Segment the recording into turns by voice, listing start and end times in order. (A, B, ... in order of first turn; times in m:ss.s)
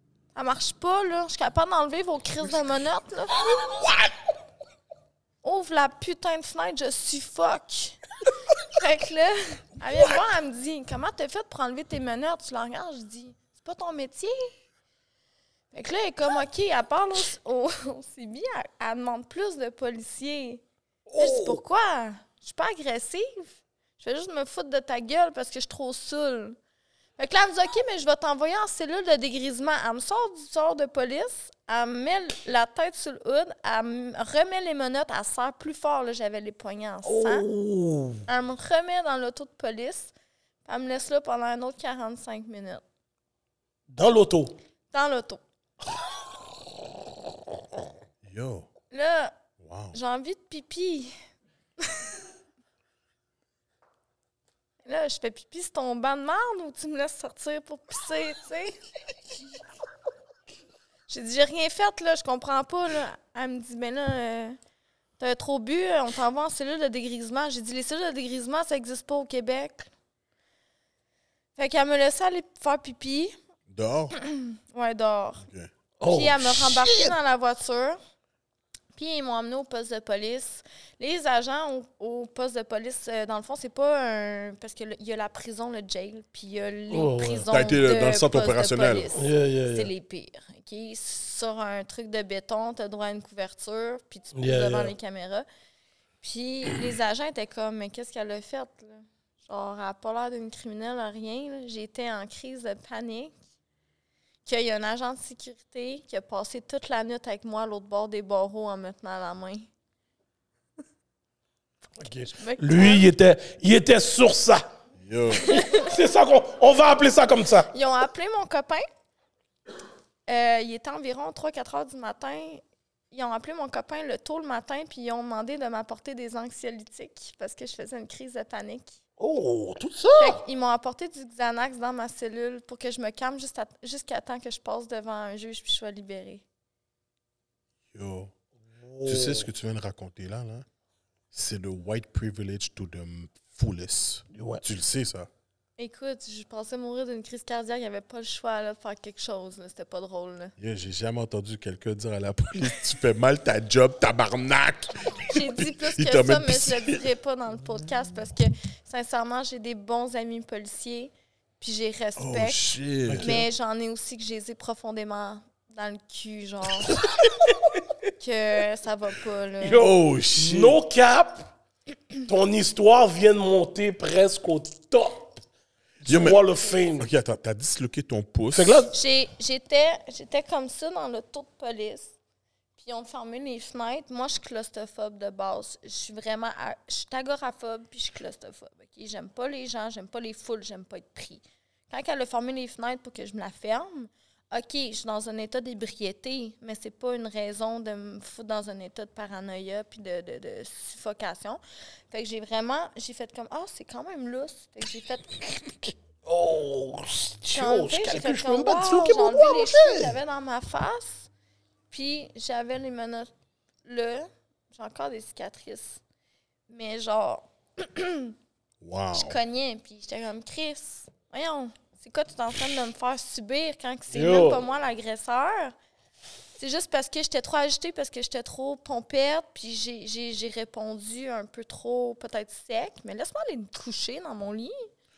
0:00.4-0:03.4 A
0:03.6-0:04.0 B
0:05.4-0:08.0 A
0:08.6-0:14.5 A
0:15.7-0:20.6 A
0:21.1-0:21.6 B
0:21.2-0:26.6 A
0:27.2-0:37.5 A
0:37.0-0:38.2 B
0:38.3-0:40.1 A
0:40.6-0:42.8 A
0:43.9-0:44.6 B
0:44.9-0:45.4 A
0:48.2-0:48.7 C
0:48.9-0:49.4 A
0:49.6-0:50.0 C
0:49.9-0:51.2 A
0:51.8-0:52.1 A
0:54.8-0:58.8 A
1:01.1-1:04.6 A
1:05.2-1:09.9 A
1:11.6-1:13.4 A
1:13.7-1:14.2 C
1:14.2-1:15.4 A
1:15.4-1:15.7 C
1:16.0-1:17.2 B
1:16.1-1:18.0 A
1:19.0-1:35.5 A
1:26.9-1:27.5 B
1:27.5-1:29.1 C
1:29.2-1:29.9 B
1:34.4-1:34.9 B
1:36.2-1:43.4 A
1:44.4-1:49.7 A
1:52.0-1:54.6 B
1:52.4-1:53.1 A
1:55.0-1:55.5 C
1:55.3-1:57.7 B
1:55.5-1:55.9 A
1:57.7-1:58.8 A
2:00.3-2:09.0 A
2:09.2-2:10.4 B
2:10.2-2:16.4 A
2:17.9-2:18.3 C
2:18.8-2:19.5 B
2:19.0-2:20.7 C
2:21.3-2:25.3 C
2:24.3-2:24.6 B
2:25.8-2:30.5 A
2:30.6-2:37.0 C
2:35.3-2:42.6 A
2:42.2-2:43.4 C
2:43.1-2:43.5 B
2:43.2-2:47.0 A
2:48.2-2:49.9 A
2:49.6-2:51.5 B
2:49.8-2:50.8 C
2:52.2-2:55.4 B
2:56.0-2:57.1 B
2:56.1-2:56.4 C
2:56.9-2:58.8 C
2:58.5-2:58.9 B
2:58.9-3:02.1 A
3:02.8-3:25.9 A
3:26.3-3:30.2 B
3:27.5-3:31.3 A
3:31.9-3:33.3 A
3:33.9-3:36.0 A
3:36.7-3:38.4 A
3:38.8-3:39.4 C
3:39.1-3:45.7 A
3:44.1-3:44.6 B
3:46.6-3:54.9 A